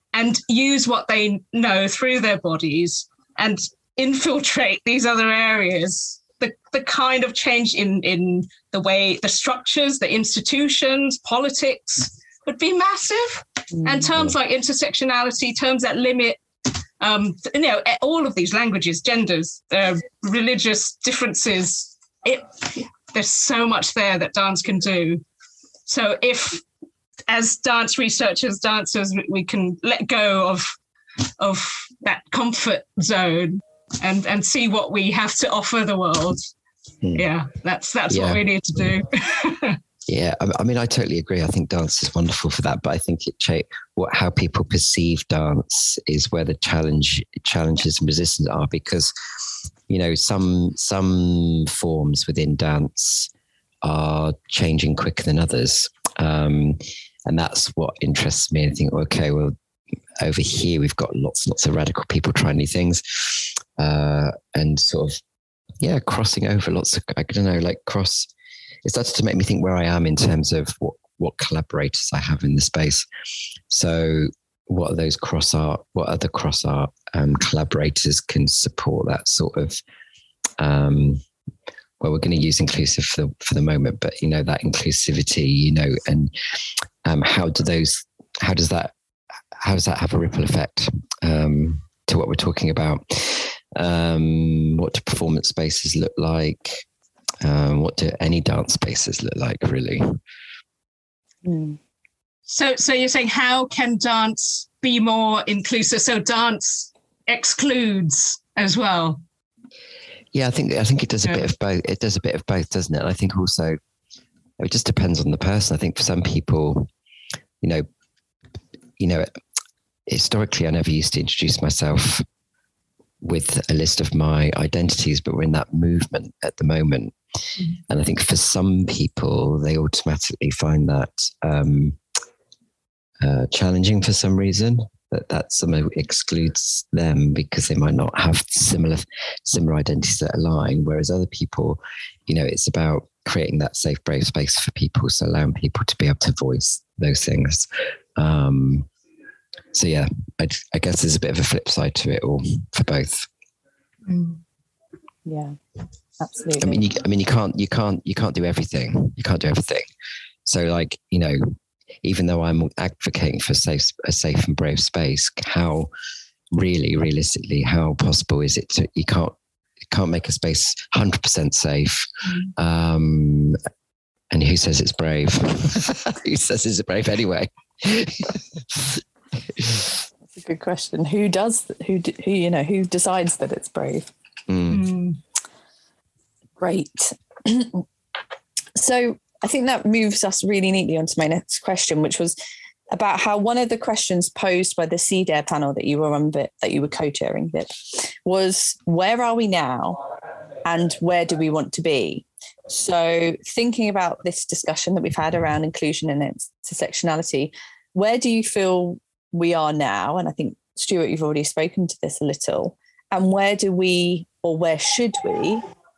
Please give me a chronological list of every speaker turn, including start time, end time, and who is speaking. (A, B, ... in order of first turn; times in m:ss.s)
0:00.1-0:16.4 A
0:17.0-0:25.2 A
0:25.9-0:26.6 A
0:27.3-0:30.7 A
0:31.4-0:36.4 A
0:37.2-0:39.8 A
0:38.1-0:38.4 B
0:40.1-0:49.1 B
0:49.9-0:53.3 B
0:53.8-0:59.6 B
1:00.2-1:05.2 B
1:05.8-1:08.3 B
1:08.8-1:13.0 B
1:13.7-1:19.8 B
1:20.6-1:21.2 B
1:22.0-1:26.3 B
1:27.0-1:28.9 B
1:29.6-1:36.9 B
1:37.4-1:40.2 B
1:41.4-1:41.8 C
1:42.5-1:49.2 A
1:50.3-1:53.8 B
1:54.6-1:56.9 B
1:59.0-1:59.3 B
2:00.1-2:02.2 B
2:03.2-2:07.2 B
2:07.9-2:12.0 B
2:13.2-2:28.9 B
2:29.7-2:33.3 B
2:34.1-2:34.4 A
2:35.3-2:35.6 C
2:36.2-2:36.8 C
2:36.6-2:39.9 B
2:40.4-2:45.9 B
2:46.5-2:49.4 B
2:49.9-2:53.6 B
2:54.3-2:59.9 B
3:00.4-3:04.1 C
3:04.5-3:04.8 B
3:04.7-3:05.2 A
3:06.6-3:07.8 C
3:08.8-3:12.4 C
3:12.9-3:20.0 C
3:20.6-3:35.6 C